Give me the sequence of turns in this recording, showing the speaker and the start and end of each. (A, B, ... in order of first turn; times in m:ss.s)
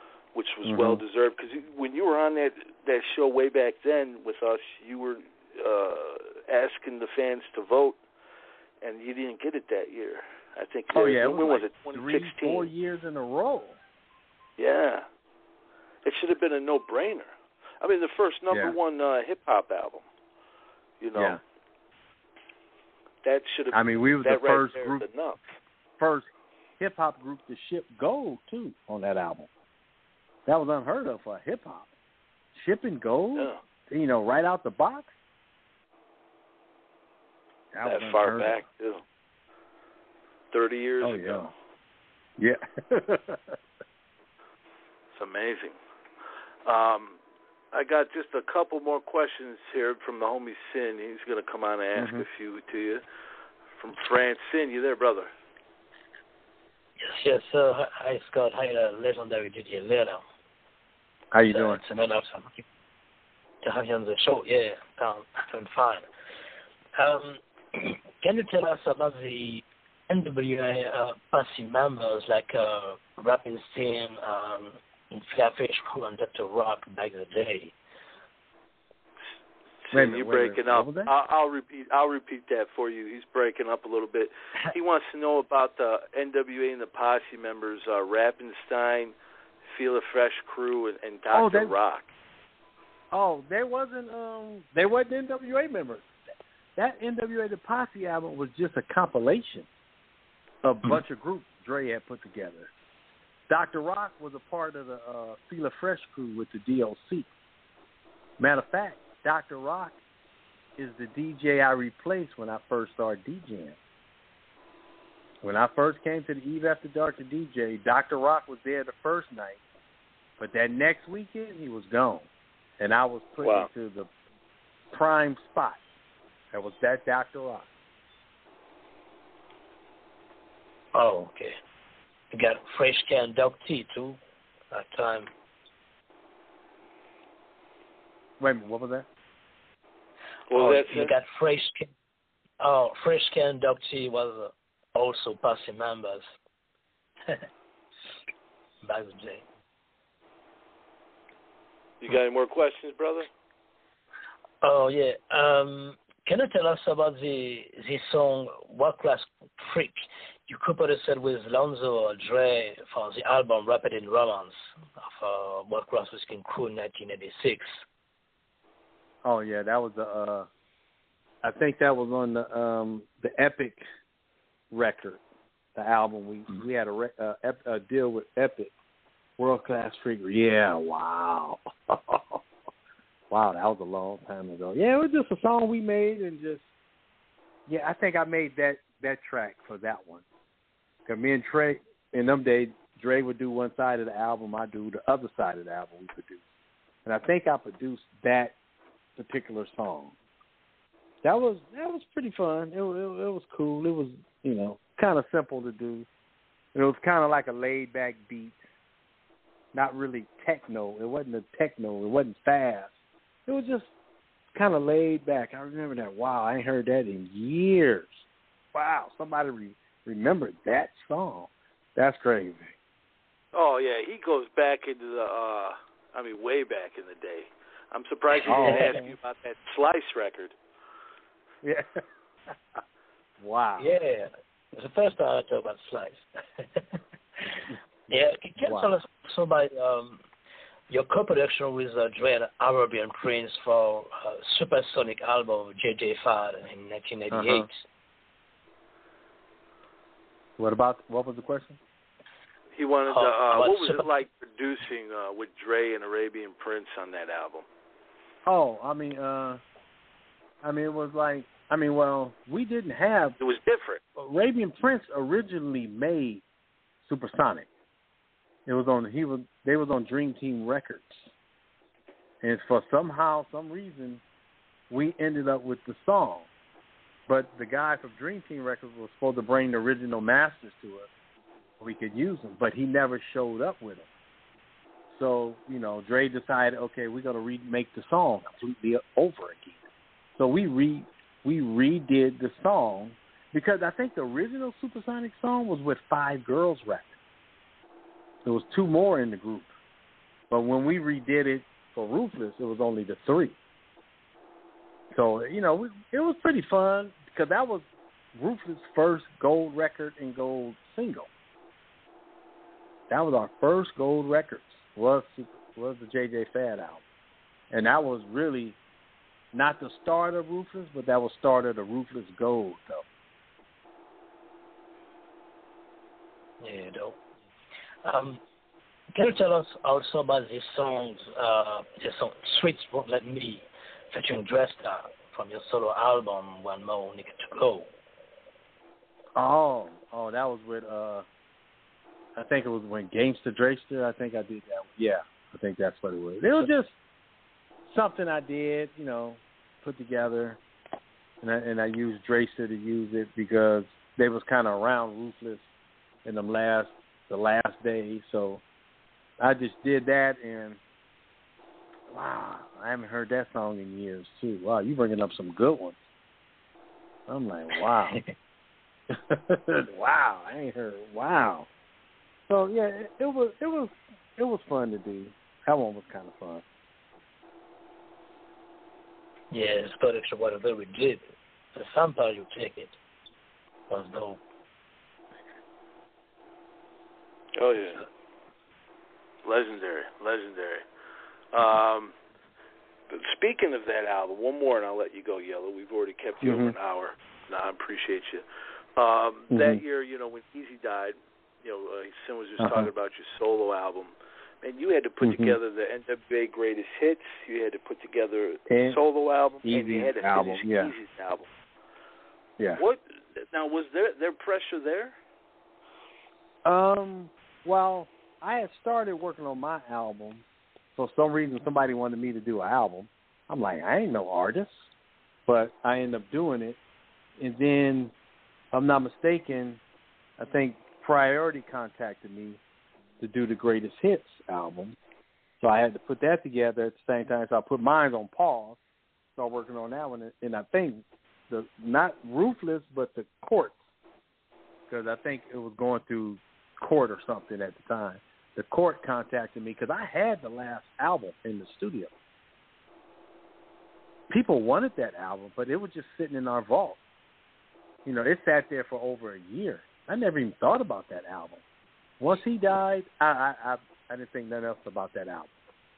0:00.3-0:08.0 A
0:00.6-0:01.0 B
0:08.8-0:12.7 A
0:10.9-0:13.8 B
0:14.6-0:15.1 A
0:16.0-0:20.0 A
0:18.5-0:18.8 B
0:21.0-0:21.4 A
0:21.1-0:21.4 B
0:23.2-0:25.4 A
0:23.7-0:25.0 B
0:26.0-0:26.3 B
0:26.8-0:29.5 B
0:30.4-0:31.9 B
0:32.5-0:35.2 B
0:33.3-0:33.6 A
0:37.7-0:38.6 B
0:37.8-0:39.0 A
0:40.5-0:41.5 A
0:41.0-0:41.5 B
0:42.4-0:43.6 B
0:45.1-0:45.8 A
0:46.6-0:47.2 A
0:47.7-0:53.0 A
0:52.0-0:52.2 B
0:53.8-0:55.3 A
0:57.0-1:00.2 C
1:01.3-1:01.8 B
1:01.4-1:02.6 C
1:03.6-1:06.1 C
1:07.0-1:17.8 C
1:19.9-1:29.1 A
1:19.9-1:21.1 B
1:29.7-1:32.1 A
1:31.3-1:31.8 B
1:33.1-1:36.1 B
1:36.8-1:39.7 B
1:40.6-1:42.7 B
1:43.5-1:47.3 B
1:48.4-1:50.0 B
1:50.8-1:53.8 B
1:55.4-1:59.6 B
2:00.4-2:04.1 B
2:03.4-2:03.7 A
2:04.9-2:05.8 B
2:06.5-2:07.7 B
2:10.9-2:11.5 C
2:12.3-2:14.2 C
2:14.7-2:15.3 C
2:18.4-2:19.1 B
2:20.5-2:21.1 A
2:20.5-2:21.9 C
2:22.6-2:26.2 C
2:28.8-2:29.4 C
2:32.0-2:33.3 A
2:34.6-2:47.8 C
2:49.2-2:50.5 B
2:51.4-2:53.8 B
2:54.7-2:55.2 B
2:55.7-2:58.7 B
2:59.4-3:02.4 B
3:03.3-3:06.7 B
3:07.7-3:10.2 B
3:11.0-3:16.4 B
3:17.0-3:18.6 B
3:19.2-3:20.2 B
3:21.2-3:26.1 B
3:26.7-3:28.6 B
3:29.7-3:33.0 B
3:33.5-3:33.9 B
3:34.5-3:42.8 B
3:43.5-3:50.5 A
3:48.3-3:49.1 C
3:48.4-3:49.1 B
3:51.6-3:52.5 B
3:53.4-3:53.9 B
3:53.8-3:57.0 C
3:58.1-3:58.9 B
3:58.1-4:00.2 C
4:00.9-4:07.7 C
4:07.3-4:07.6 B
4:10.6-4:11.8 B
4:12.7-4:17.6 A
4:13.1-4:14.1 C
4:18.4-4:19.6 B
4:20.6-4:23.4 B
4:23.4-4:24.0 A
4:24.2-4:26.4 B
4:27.0-4:27.7 B
4:28.6-4:31.3 B
4:32.4-4:34.2 B
4:34.9-4:36.5 B
4:37.3-4:41.1 B
4:41.8-4:44.1 B
4:45.1-4:49.8 B
4:50.4-4:57.1 B
4:58.4-4:59.7 B
5:00.5-5:03.6 B
5:05.1-5:11.3 B
5:13.1-5:17.0 B
5:17.7-5:18.8 B
5:19.5-5:23.0 B
5:26.6-5:27.2 C
5:28.0-5:28.4 C
5:29.1-5:37.9 C
5:39.3-5:41.2 B
5:42.4-5:47.0 B
5:47.9-5:50.6 B
5:51.4-5:55.6 B
5:56.2-5:58.6 B
5:59.4-6:00.8 B
6:02.1-6:06.0 B
6:07.3-6:08.2 B
6:09.1-6:11.7 B
6:12.5-6:16.6 B
6:19.5-6:21.2 C
6:21.7-6:23.0 C
6:23.9-6:24.4 C
6:27.6-6:28.0 A
6:29.4-6:30.8 A
6:31.5-6:32.1 A
6:33.1-6:38.4 A
6:36.4-6:36.8 B
6:39.0-6:51.5 A
6:39.5-6:39.8 B
6:42.6-6:42.9 B
6:45.2-6:45.6 B
6:48.7-6:49.0 B
6:49.6-6:50.9 B
6:52.8-6:55.2 A
6:56.6-7:00.4 B
7:01.0-7:04.9 B
7:05.5-7:06.8 B
7:07.4-7:08.1 B
7:08.7-7:09.8 B
7:10.4-7:12.6 B
7:13.2-7:15.0 B
7:15.6-7:18.8 B
7:19.4-7:23.8 B
7:24.9-7:32.1 B
7:34.3-7:37.0 B
7:38.0-7:41.6 B
7:42.2-7:45.5 B